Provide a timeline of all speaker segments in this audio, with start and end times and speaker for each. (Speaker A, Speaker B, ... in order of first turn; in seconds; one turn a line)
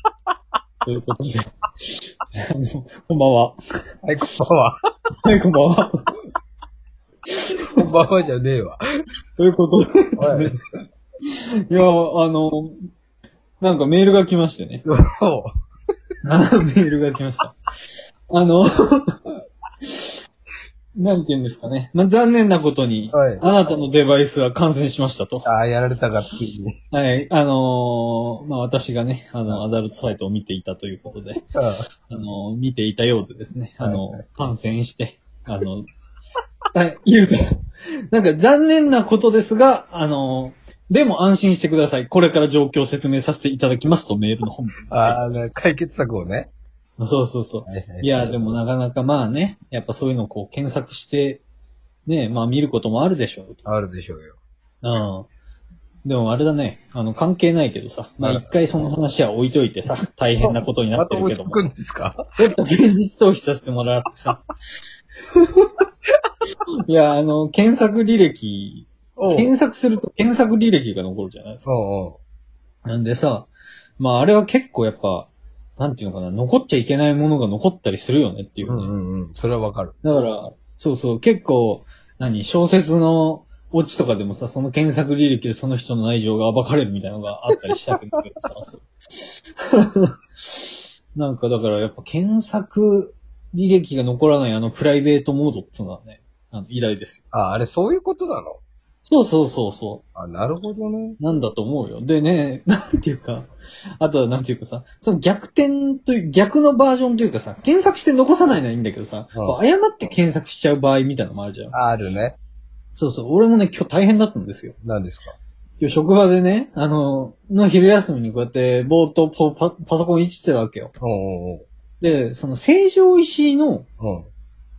Speaker A: 0.8-3.6
Speaker B: 4.0-4.8
Speaker A: 5.2-6.1
Speaker A: 7.3-7.6
Speaker B: 7.7-8.8
Speaker A: 9.4-10.5
Speaker B: 10.2-10.6
Speaker A: 11.3-12.9
Speaker A: 13.6-14.8
Speaker B: 14.9-15.5
Speaker A: 16.2-19.2
Speaker A: 19.8-20.1
Speaker A: 21.0-25.5
Speaker B: 23.1-23.4
Speaker B: 25.4-26.8
Speaker A: 26.9-31.4
Speaker B: 31.6-31.9
Speaker A: 32.1-35.9
Speaker B: 33.8-34.2
Speaker A: 36.7-37.6
Speaker A: 38.1-45.2
Speaker B: 44.9-46.5
Speaker A: 47.0-51.4
Speaker B: 47.7-48.6
Speaker A: 52.1-53.6
Speaker B: 53.6-54.4
Speaker A: 54.8-55.3
Speaker A: 56.0-61.6
Speaker B: 58.2-58.5
Speaker B: 60.4-62.2
Speaker A: 62.4-64.5
Speaker A: 66.9-71.7
Speaker B: 69.2-69.5
Speaker B: 71.7-72.2
Speaker A: 72.8-78.9
Speaker B: 78.7-80.0
Speaker A: 80.0-97.2
Speaker B: 97.3-98.6
Speaker A: 99.0-100.0
Speaker B: 100.2-101.2
Speaker A: 101.2-111.7
Speaker B: 111.7-112.4
Speaker A: 113.0-114.8
Speaker B: 114.8-115.4
Speaker A: 115.8-120.9
Speaker B: 121.0-121.7
Speaker A: 122.0-123.9
Speaker B: 124.0-124.3